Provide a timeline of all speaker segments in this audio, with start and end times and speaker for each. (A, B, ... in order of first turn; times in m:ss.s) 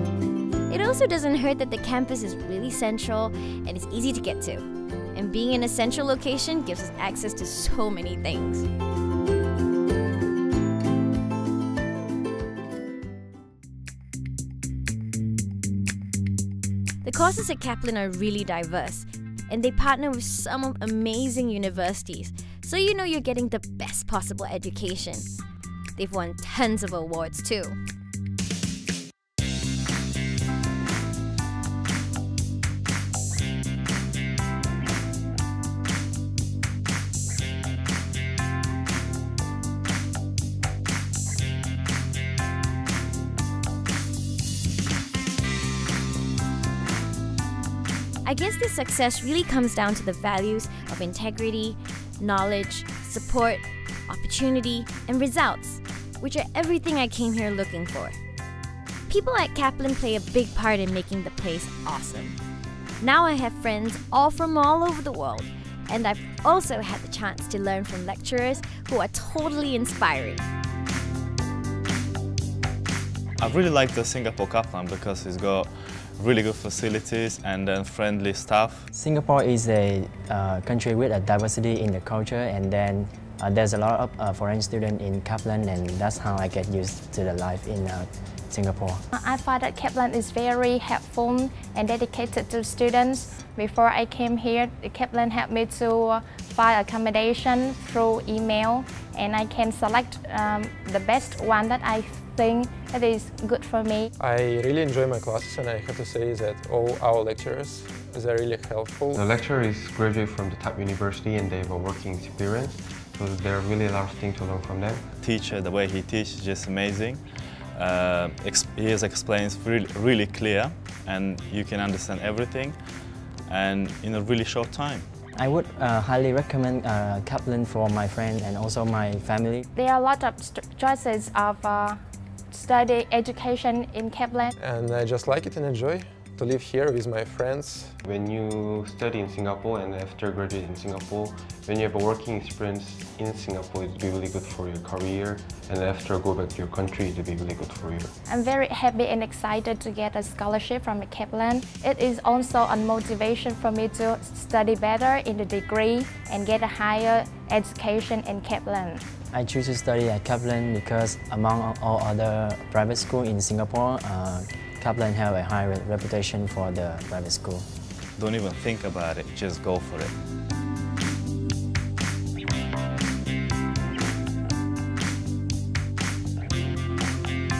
0:00.7-0:08.7 A
0:17.0-0:25.3 A
0:26.0-0:27.8 A
0:48.2-0:58.2 A
0:59.1-1:02.4 A
1:03.0-1:10.4 A
1:13.4-1:18.9 B
1:18.9-1:29.0 C
1:29.1-1:44.1 D
1:44.2-1:49.3 E
1:49.1-1:55.1 F
1:55.2-2:02.8 B
2:03.5-2:05.1 B
2:05.4-2:09.7 C
2:09.7-2:12.0 D
2:12.5-2:14.5 D
2:14.6-2:18.0 E
2:18.0-2:28.1 F
2:28.3-2:39.0 D
2:39.3-2:47.7 C
2:48.2-2:50.1 B